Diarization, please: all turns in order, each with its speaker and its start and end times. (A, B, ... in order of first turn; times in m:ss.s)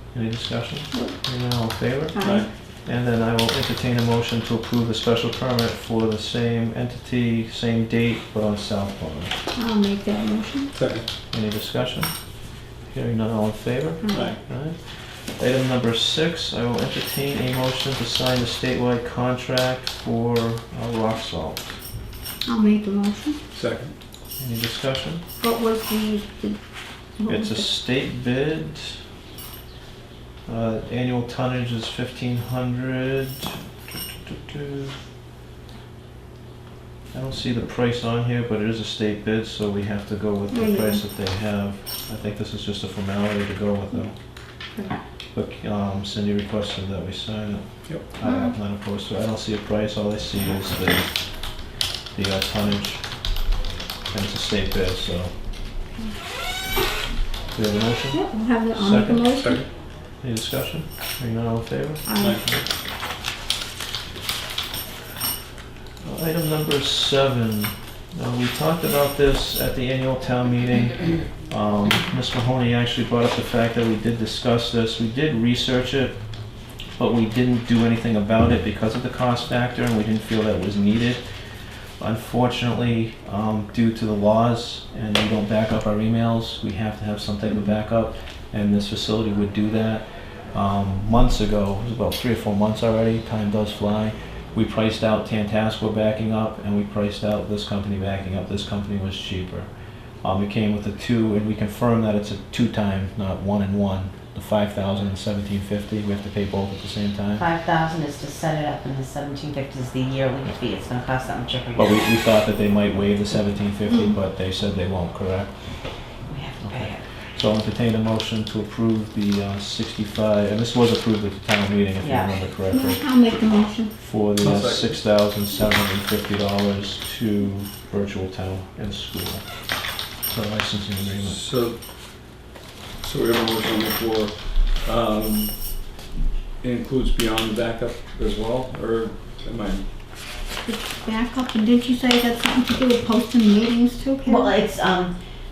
0:00.1-0:09.4 A
0:00.9-0:01.2 B
0:02.1-0:02.5 B
0:02.2-0:02.5 C
0:09.5-0:10.7 B
0:10.7-0:11.1 C
0:11.3-0:21.8 A
0:14.0-0:14.4 B
0:14.1-0:14.4 C
0:22.4-0:23.4 B
0:23.5-0:23.9 C
0:24.4-0:25.2 A
0:25.4-0:26.6 B
0:27.2-0:27.7 B
0:27.3-0:29.0 A
0:30.5-0:33.6 A
0:34.3-0:35.0 A
0:37.1-0:44.2 A
0:40.5-0:41.0 B
0:44.7-0:45.0 B
0:45.3-0:53.4 A
0:48.2-0:48.6 B
0:54.1-0:55.4 A
0:57.5-1:02.1 A
0:58.1-0:59.6 B
1:02.0-1:02.5 B
1:02.2-1:02.6 C
1:06.0-1:47.5 A
1:47.4-1:52.0 D
1:51.8-2:03.0 A
1:53.9-1:54.2 B
1:56.2-1:57.1 D
2:02.0-2:02.5 D
2:02.7-2:03.9 B
2:04.0-2:09.7 A
2:04.4-2:05.0 C
2:10.2-2:11.4 A
2:11.2-2:11.8 C
2:13.0-2:15.6 C
2:16.6-2:19.8 C
2:20.6-2:24.6 B
2:24.2-2:25.2 D